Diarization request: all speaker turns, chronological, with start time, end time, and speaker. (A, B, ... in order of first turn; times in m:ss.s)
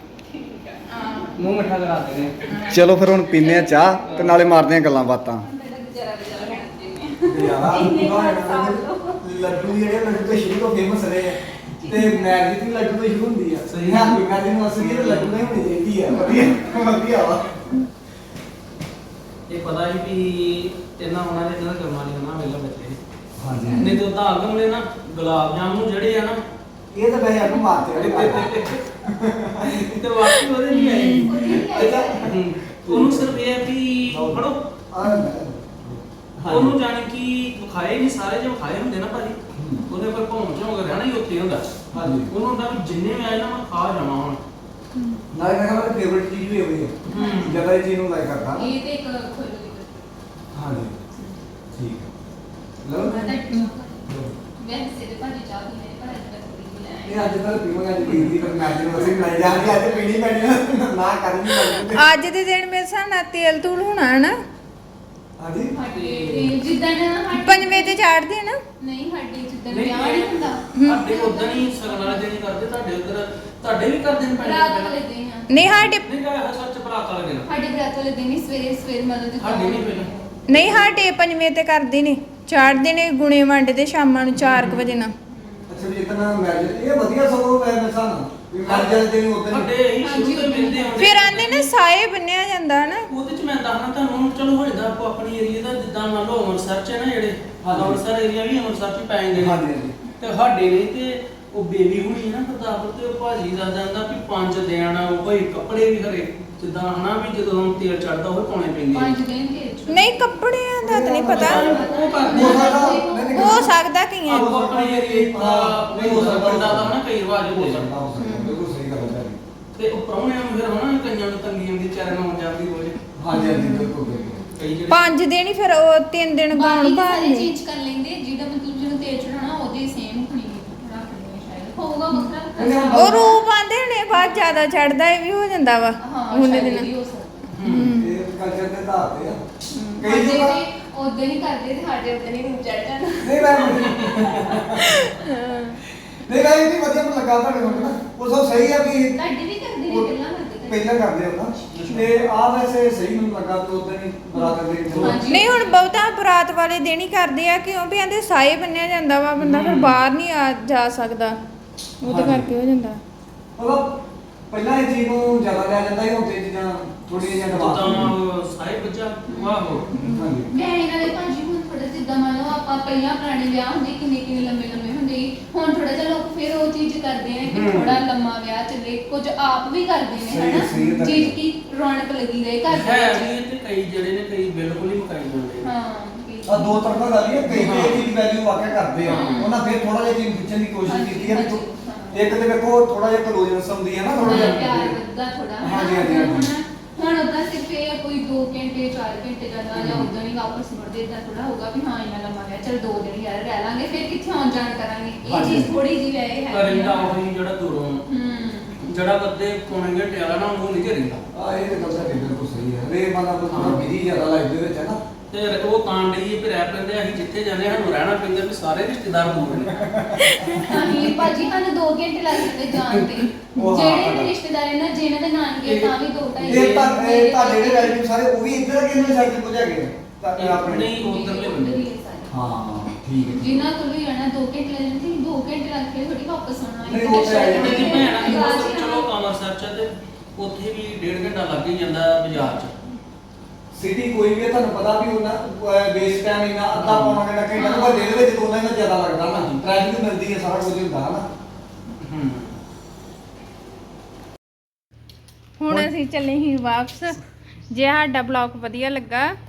0:00.2-0:01.4 A
0:01.4-0:02.4 B
0:02.4-0:04.2 A
0:02.7-0:05.4 C
0:04.0-0:04.5 B
0:05.4-0:09.2 A
0:07.2-0:17.7 C
0:11.8-0:12.3 A
0:13.7-0:15.5 B
0:19.5-0:23.0 B
0:23.4-0:23.9 C
0:23.8-0:26.4 B
0:26.9-0:30.0 C
0:28.0-0:28.8 B
0:29.8-0:34.6 B
0:30.7-0:31.4 D
0:31.2-0:32.3 A
0:31.4-0:33.4 C
0:34.1-0:36.8 C
0:35.0-0:35.3 D
0:36.5-0:44.4 B
0:39.5-0:39.8 C
0:41.9-0:42.3 C
0:45.0-0:45.2 D
0:45.3-0:48.7 C
0:47.1-0:47.6 B
0:47.1-0:47.6 A
0:48.5-0:50.1 A
0:50.5-0:51.0 C
0:51.7-0:52.1 C
0:52.8-0:53.4 C
0:53.0-0:54.1 A
0:54.0-0:54.4 C
0:54.6-0:57.2 A
0:57.0-1:02.0 C
0:58.0-0:58.4 B
0:59.0-0:59.7 A
1:01.7-1:04.4 D
1:05.4-1:05.7 C
1:05.7-1:08.0 A
1:05.9-1:06.5 B
1:07.4-1:08.6 D
1:08.8-1:12.2 A
1:09.7-1:14.9 B
1:10.7-1:11.0 D
1:14.4-1:15.6 A
1:15.5-1:16.0 D
1:15.6-1:17.5 B
1:17.5-1:20.6 A
1:19.4-1:20.1 B
1:20.5-1:25.1 D
1:24.3-1:24.9 B
1:25.3-1:25.7 A
1:25.7-1:29.7 C
1:28.6-1:31.7 B
1:30.0-1:31.1 A
1:31.0-1:33.0 D
1:33.1-1:39.6 B
1:37.6-1:38.0 C
1:39.4-1:40.0 C
1:40.2-1:49.1 B
1:48.9-1:50.4 A
1:49.9-1:51.6 D
1:50.8-1:56.9 C
1:51.3-1:53.6 A
1:51.4-1:53.0 B
1:53.3-1:54.5 D
1:54.3-1:57.9 B
1:57.5-1:59.4 C
1:58.2-1:58.6 D
1:59.8-2:03.0 B
2:03.2-2:04.4 C
2:03.3-2:03.9 D
2:03.6-2:04.5 A
2:04.5-2:05.2 B
2:04.9-2:07.5 D
2:06.5-2:13.4 A
2:12.6-2:13.4 C
2:12.9-2:16.9 D
2:14.1-2:14.5 A
2:16.0-2:17.5 A
2:17.6-2:17.9 B
2:17.7-2:18.2 D
2:17.7-2:19.4 C
2:19.7-2:20.0 D
2:20.0-2:20.6 C
2:20.0-2:24.6 A
2:23.2-2:25.0 C
2:24.8-2:25.8 D
2:26.0-2:29.2 C
2:29.1-2:30.9 A
2:29.9-2:30.1 C
2:30.7-2:35.2 C
2:31.7-2:32.1 B
2:34.9-2:35.2 B
2:35.0-2:35.8 A
2:35.3-2:41.4 D
2:39.4-2:40.0 B
2:42.0-2:43.0 D
2:42.0-2:42.5 C
2:43.6-2:48.1 C
2:47.5-2:50.0 B
2:49.3-2:49.9 A
2:50.0-2:50.5 C
2:50.0-2:50.3 D
2:50.5-3:03.3 A
2:57.5-2:58.0 B
3:00.2-3:01.4 C
3:02.7-3:05.7 B
3:05.6-3:07.1 A
3:06.5-3:11.6 C
3:07.5-3:08.1 B
3:09.0-3:09.5 B
3:09.1-3:09.5 A
3:10.9-3:12.3 A
3:12.1-3:15.0 C
3:14.2-3:14.6 B
3:14.2-3:27.2 A
3:15.6-3:16.5 C
3:19.7-3:20.1 B
3:25.2-3:25.7 C
3:26.5-3:28.0 B
3:28.1-3:28.8 A
3:28.8-3:31.2 B
3:31.3-3:35.0 C
3:33.5-3:33.8 B
3:35.3-3:39.9 B
3:39.6-3:40.5 C
3:40.5-3:48.0 A
3:43.6-3:44.3 C
3:45.6-3:46.9 B
3:46.5-3:51.0 C
3:50.4-3:51.8 B
3:51.0-3:52.3 A
3:52.3-3:53.7 C
3:53.2-3:59.1 A
3:56.8-3:58.3 C
3:57.1-4:02.8 B
4:03.7-4:11.2 C
4:06.8-4:07.2 B
4:07.6-4:08.2 A
4:12.0-4:12.6 B
4:15.6-4:17.2 D
4:17.7-4:19.3 D